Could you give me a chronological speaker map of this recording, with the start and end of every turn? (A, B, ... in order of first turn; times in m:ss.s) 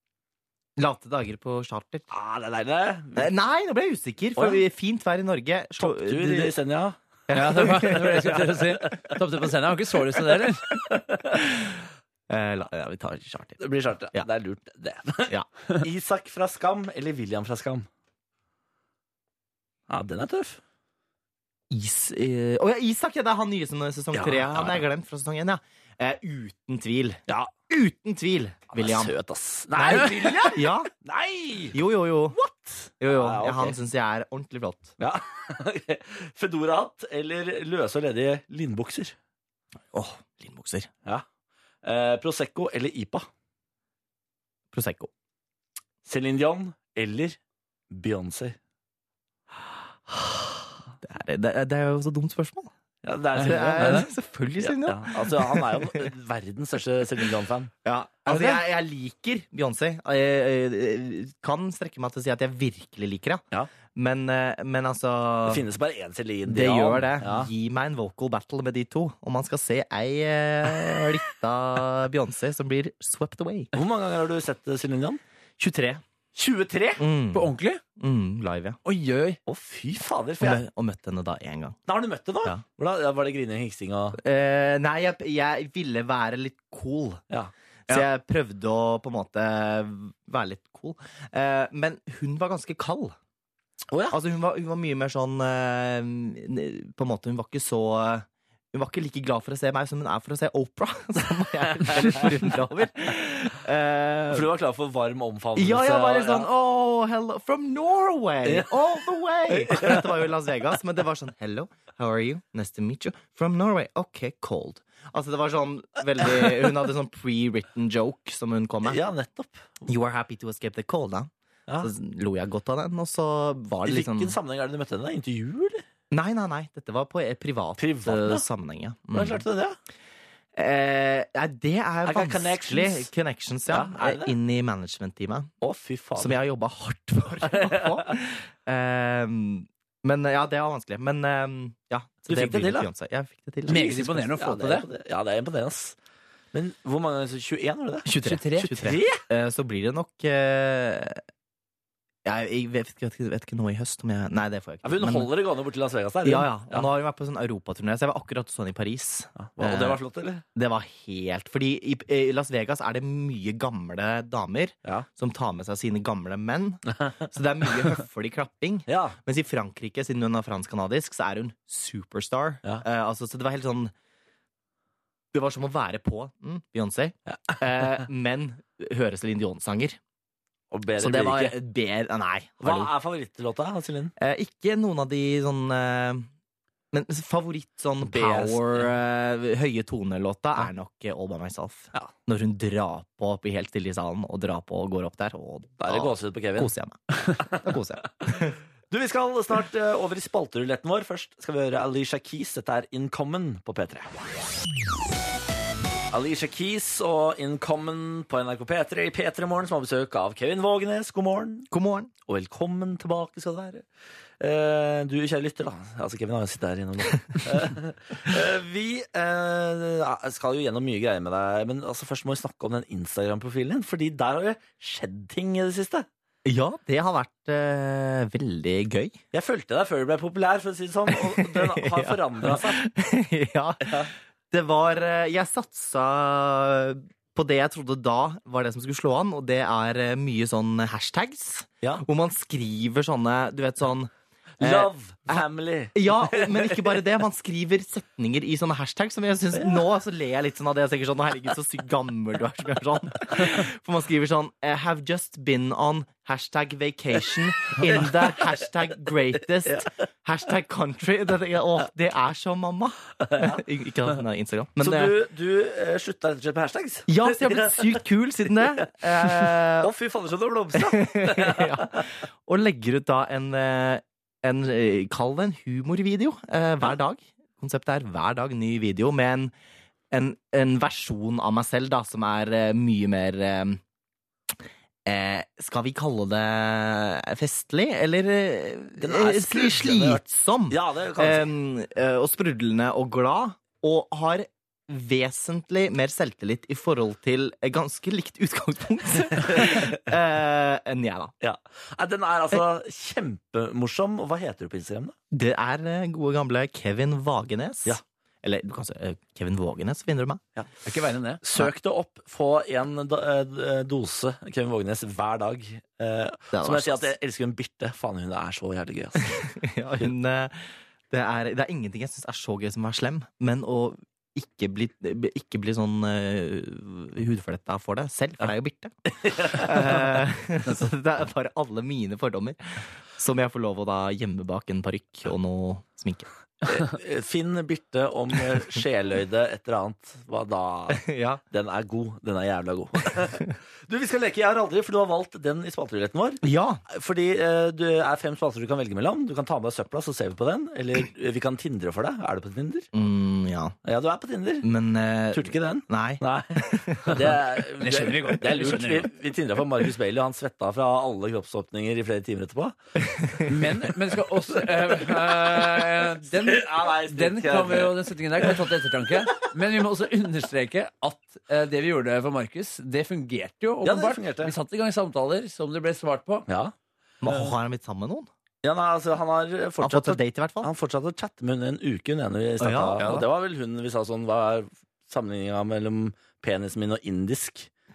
0:00.8-0:02.1 A
0:02.1-0:03.3 B
0:03.2-0:06.5 A
0:04.4-0:04.6 B
0:05.8-0:07.0 B
0:07.3-0:08.4 A
0:07.3-0:10.6 C
0:07.6-0:09.2 B
0:10.3-0:11.4 B
0:12.3-0:13.6 A
0:13.6-0:17.9 B
0:19.9-0:20.6 B
0:21.7-0:29.1 A
0:24.1-0:24.8 B
0:28.8-0:31.8 B
0:29.8-0:30.9 A
0:29.9-0:30.4 C
0:31.7-0:32.4 A
0:32.3-0:33.8 B
0:33.0-0:35.0 A
0:35.0-0:39.2 B
0:39.9-0:40.9 A
0:41.8-0:43.3 B
0:44.7-0:45.1 A
0:46.0-0:47.4 B
0:47.9-0:48.6 B
0:51.0-0:52.7 A
0:53.0-0:54.0 B
0:53.4-0:54.1 C
0:53.4-0:56.1 A
0:54.6-0:57.7 B
0:57.8-1:05.6 A
1:05.5-1:07.5 B
1:06.5-1:13.7 A
1:13.7-1:15.2 B
1:15.6-1:16.0 A
1:16.4-1:17.0 B
1:17.0-1:18.8 A
1:17.3-1:17.8 C
1:18.8-1:19.4 C
1:19.5-1:20.6 B
1:20.4-1:21.8 A
1:21.9-1:24.2 B
1:24.2-1:27.2 A
1:27.9-1:33.2 A
1:33.9-1:34.2 B
1:34.1-1:44.5 A
1:41.8-1:42.3 B
1:44.3-1:46.5 B
1:45.6-1:59.0 A
1:48.4-1:48.8 B
1:49.5-1:50.2 B
1:58.8-1:59.8 B
1:59.9-2:01.3 A
2:01.8-2:04.4 A
2:03.9-2:05.8 B
2:06.1-2:09.4 A
2:07.8-2:08.4 B
2:09.1-2:09.8 B
2:10.6-2:15.5 A
2:12.0-2:13.1 B
2:13.7-2:14.3 B
2:15.6-2:16.4 B
2:16.2-2:24.2 A
2:17.4-2:18.1 B
2:22.3-2:22.9 B
2:23.7-2:24.9 C
2:23.7-2:26.0 B
2:26.5-2:29.2 B
2:28.0-2:31.2 A
2:28.2-2:28.7 C
2:32.2-2:35.3 A
2:34.8-2:36.9 B
2:36.2-2:40.0 A
2:39.4-2:40.4 B
2:40.6-2:53.9 A
2:46.9-2:47.2 B
2:48.9-2:49.2 B
2:55.3-3:00.0 A
3:00.7-3:01.6 B
3:01.0-3:02.9 A
3:02.6-3:04.1 B
3:04.2-3:06.3 A
3:06.9-3:18.6 A
3:08.0-3:08.9 B
3:15.8-3:16.7 B
3:17.4-3:24.1 B
3:26.1-3:31.7 B
3:31.7-3:32.1 A
3:32.3-3:33.8 B
3:34.4-3:46.1 B
3:46.4-3:49.2 A
3:49.3-3:52.8 B
3:51.1-4:25.1 A
3:53.8-3:54.1 B
4:04.6-4:07.0 B
4:09.6-4:09.8 B
4:17.8-4:18.5 B
4:19.6-4:19.9 B
4:23.3-4:23.6 B
4:24.8-4:28.0 B
4:27.1-4:29.9 A
4:28.8-4:32.1 B
4:30.8-4:39.5 A
4:40.1-4:43.8 A
4:44.5-5:01.3 A
4:49.0-4:51.5 B
4:59.6-4:59.9 B
5:01.4-5:05.2 B
5:05.3-5:10.4 A
5:10.8-5:11.4 C
5:11.4-5:19.4 B
5:16.5-5:17.1 A
5:19.3-5:36.3 A
5:29.1-5:30.1 B
5:36.7-5:52.9 B
5:40.9-5:41.4 A
5:46.4-5:46.8 A
5:52.9-5:53.8 A
5:53.8-5:54.7 B
5:54.6-5:57.4 A
5:55.3-6:02.8 B
5:57.8-5:59.1 C
6:03.1-6:03.5 A
6:03.5-6:16.5 C
6:04.5-6:08.5 B
6:13.8-6:14.5 B
6:16.5-6:16.7 B
6:17.2-6:18.3 A
6:17.3-6:17.5 B
6:18.6-6:27.7 B
6:19.8-6:20.7 A
6:22.6-6:23.0 A
6:23.0-6:23.3 C